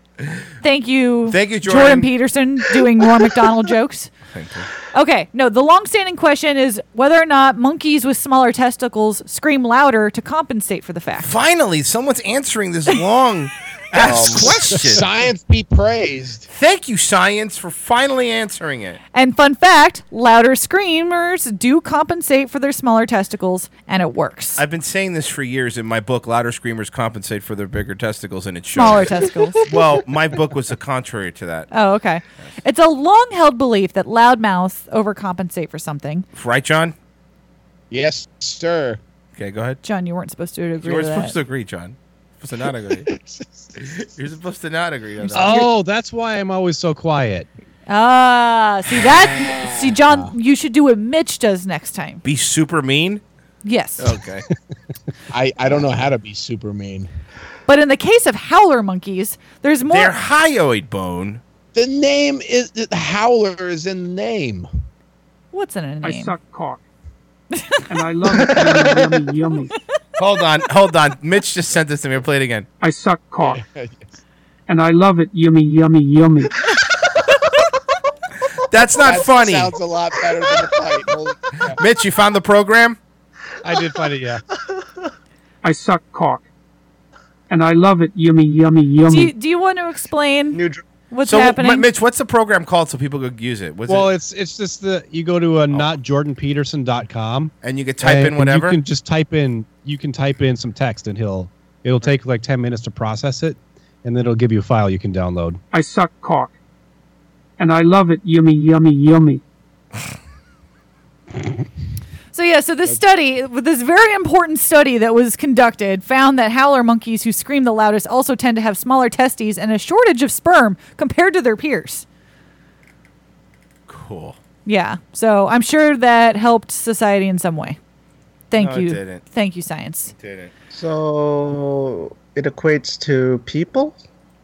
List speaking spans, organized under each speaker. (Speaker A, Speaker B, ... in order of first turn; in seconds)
Speaker A: 0.6-4.1, 4.9-11.3, 19.1-24.6, 28.7-29.6, 31.7-36.2, 39.8-41.3, 47.9-52.2, 53.6-54.1, 57.7-60.1, 65.5-66.3, 67.5-67.8, 89.1-90.6, 91.1-91.8, 112.3-122.0, 124.7-127.8, 128.5-130.1
Speaker B: 1.3-2.1, 4.3-4.7, 11.2-15.0, 16.5-19.0, 24.6-31.7, 36.3-36.9, 39.4-39.8, 40.8-43.1, 43.9-45.7, 52.2-53.2, 54.0-54.4, 59.9-61.4, 70.2-72.7, 78.7-79.7, 81.8-83.0, 91.2-94.1, 97.6-98.8, 123.9-124.4, 128.6-129.2, 130.1-130.5
Speaker C: 14.0-14.5, 68.3-69.2, 90.5-90.8, 130.7-134.0
Speaker D: 14.0-16.5, 37.9-39.0, 42.9-43.9, 49.4-50.3, 55.3-57.1, 61.7-64.7, 73.5-74.2, 78.8-81.8
Speaker E: 45.3-47.5, 83.6-84.4, 93.9-105.6
Speaker F: 66.0-66.8, 67.9-69.7, 72.8-73.6, 74.7-76.5, 85.6-86.5, 87.5-89.3, 105.7-106.5, 107.6-109.4